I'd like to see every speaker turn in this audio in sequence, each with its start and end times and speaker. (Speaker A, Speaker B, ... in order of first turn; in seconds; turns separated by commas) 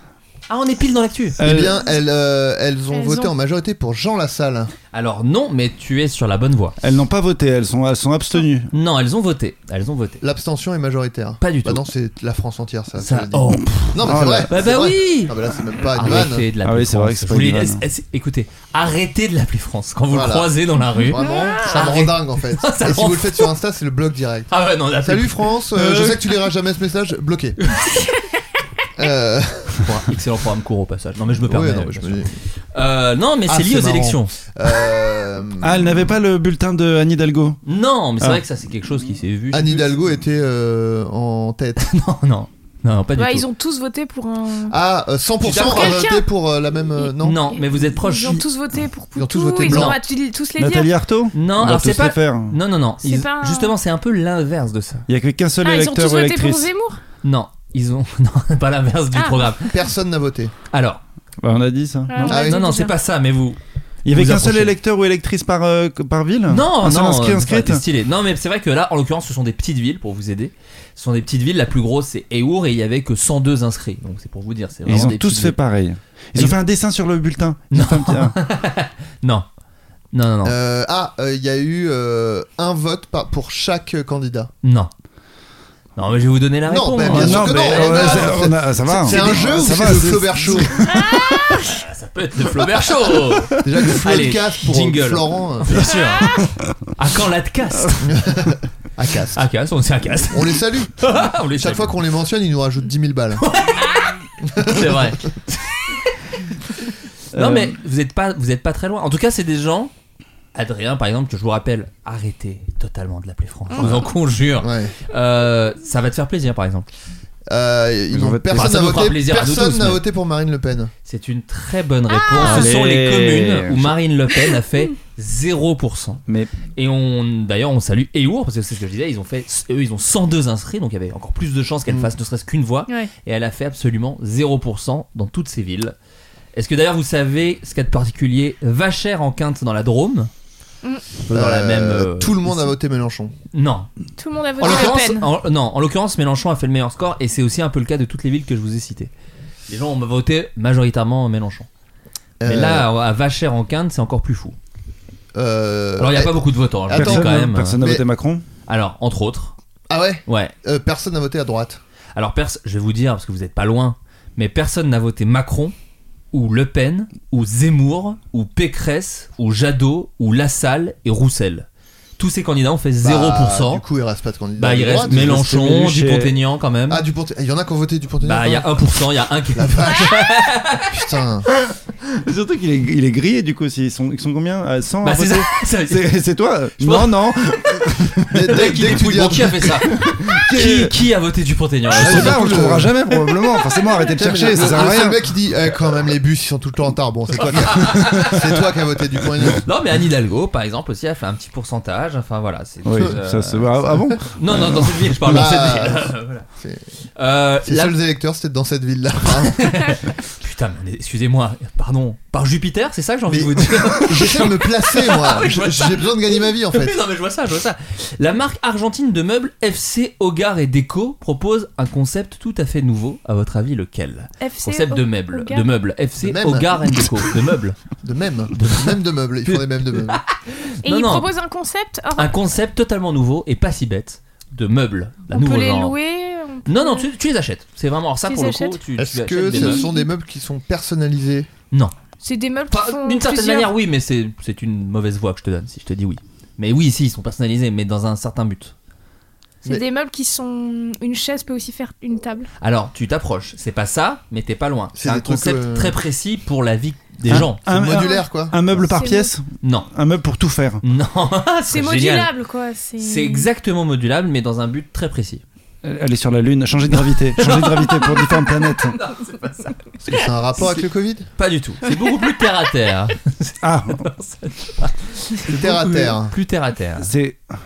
Speaker A: 0.5-1.4, Speaker B: 1.4-1.8, Speaker C: 1.4-4.7, Speaker D: 2.9-3.3, Speaker A: 4.9-6.8, Speaker B: 6.8-8.7, Speaker A: 8.7-10.2, Speaker C: 10.2-16.5, Speaker A: 11.4-11.8, Speaker A: 13.0-23.5, Speaker B: 14.0-14.5, Speaker B: 16.0-17.8, Speaker C: 20.1-27.6, Speaker D: 21.1-21.6, Speaker A: 24.5-26.4, Speaker C: 29.0-29.9, Speaker A: 29.8-34.3, Speaker C: 31.4-32.3, Speaker C: 33.5-35.9, Speaker B: 35.6-37.6, Speaker A: 37.6-39.9, Speaker C: 39.5-41.8, Speaker A: 41.8-43.5, Speaker D: 43.2-44.8, Speaker C: 44.7-47.5, Speaker A: 45.4-46.1, Speaker D: 45.5-46.2, Speaker A: 47.2-48.4, Speaker D: 47.7-50.9, Speaker C: 49.2-50.0, Speaker A: 49.6-50.0, Speaker B: 50.6-52.6, Speaker A: 51.3-55.0, Speaker D: 53.0-53.7, Speaker B: 55.1-56.7, Speaker D: 55.6-57.0, Speaker A: 57.2-59.7, Speaker D: 59.1-59.5, Speaker C: 59.7-60.5, Speaker A: 60.7-61.0, Speaker B: 61.4-62.4, Speaker D: 62.1-62.9, Speaker A: 62.2-64.7, Speaker C: 62.3-62.7, Speaker B: 64.0-67.8, Speaker A: 66.5-75.6, Speaker B: 74.8-78.4, Speaker A: 77.7-79.5, Speaker A: 80.1-80.5, Speaker C: 80.4-84.5, Speaker A: 84.6-84.9, Speaker A: 86.0-89.5, Speaker C: 86.7-90.8, Speaker B: 87.0-91.0, Speaker D: 90.9-91.8, Speaker A: 91.0-96.4, Speaker C: 93.6-96.0, Speaker A: 97.0-98.2, Speaker C: 98.1-99.4, Speaker A: 99.3-102.0, Speaker C: 100.3-101.0, Speaker C: 101.5-103.4, Speaker A: 103.4-104.0, Speaker D: 103.8-104.1, Speaker C: 104.4-105.1, Speaker A: 104.6-105.9, Speaker B: 107.3-107.8, Speaker A: 107.3-109.9, Speaker A: 110.5-116.9, Speaker D: 113.7-114.0, Speaker C: 113.8-114.1, Speaker C: 114.6-114.9, Speaker C: 117.5-120.9, Speaker B: 118.1-118.9, Speaker A: 118.5-120.0, Speaker A: 121.0-126.2, Speaker D: 122.1-122.7, Speaker B: 122.4-124.0, Speaker B: 126.3-126.5, Speaker A: 126.8-135.9, Speaker A: 136.5-140.3, Speaker A: 141.3-142.7, Speaker C: 141.3-143.3, Speaker A: 143.5-143.9, Speaker D: 144.2-145.3, Speaker A: 144.6-149.1, Speaker C: 144.6-144.9, Speaker A: 149.7-151.7, Speaker C: 152.4-152.9, Speaker A: 152.4-154.6, Speaker C: 155.3-158.0, Speaker A: 156.0-157.8, Speaker B: 156.9-158.4, Speaker A: 158.7-159.6, Speaker C: 159.9-161.8, Speaker A: 160.2-160.5, Speaker A: 162.2-165.7, Speaker A: 166.3-171.7, Speaker A: 172.2-173.8, Speaker C: 173.0-175.5, Speaker A: 174.6-177.0, Speaker B: 175.1-176.4, Speaker C: 176.9-178.8, Speaker A: 178.2-180.8, Speaker C: 179.5-181.5, Speaker D: 179.8-180.1, Speaker B: 182.2-191.0, Speaker A: 185.0-186.1, Speaker A: 186.8-187.3, Speaker C: 188.3-189.8, Speaker A: 188.5-192.8, Speaker C: 191.9-192.9, Speaker B: 191.9-195.2, Speaker C: 194.2-199.7, Speaker A: 194.6-194.9, Speaker A: 197.5-198.4, Speaker B: 197.8-198.3, Speaker A: 199.6-206.4, Speaker B: 202.8-205.5, Speaker C: 205.2-206.8, Speaker A: 207.2-207.9, Speaker C: 207.6-210.0, Speaker A: 209.3-227.8, Speaker C: 213.3-217.0, Speaker D: 224.4-225.7, Speaker C: 226.2-227.1, Speaker C: 228.0-230.2, Speaker A: 228.5-231.3, Speaker D: 230.8-232.3, Speaker A: 232.2-235.9, Speaker D: 235.3-237.1, Speaker A: 236.7-239.8, Speaker D: 238.3-238.8, Speaker C: 239.0-241.5, Speaker D: 239.5-240.1, Speaker D: 242.2-243.7, Speaker A: 242.7-248.7, Speaker D: 249.6-252.5, Speaker A: 252.6-257.6, Speaker C: 254.9-255.9, Speaker B: 257.3-260.8, Speaker C: 257.4-258.6, Speaker D: 257.9-258.2, Speaker D: 258.8-259.3, Speaker A: 259.6-259.9, Speaker A: 260.8-262.3, Speaker D: 261.6-263.5, Speaker A: 263.0-265.4, Speaker B: 265.8-269.0, Speaker A: 267.3-269.8, Speaker C: 270.0-271.3, Speaker A: 270.6-270.8, Speaker A: 271.4-277.1, Speaker B: 273.6-274.0, Speaker C: 275.5-276.3, Speaker B: 277.0-277.5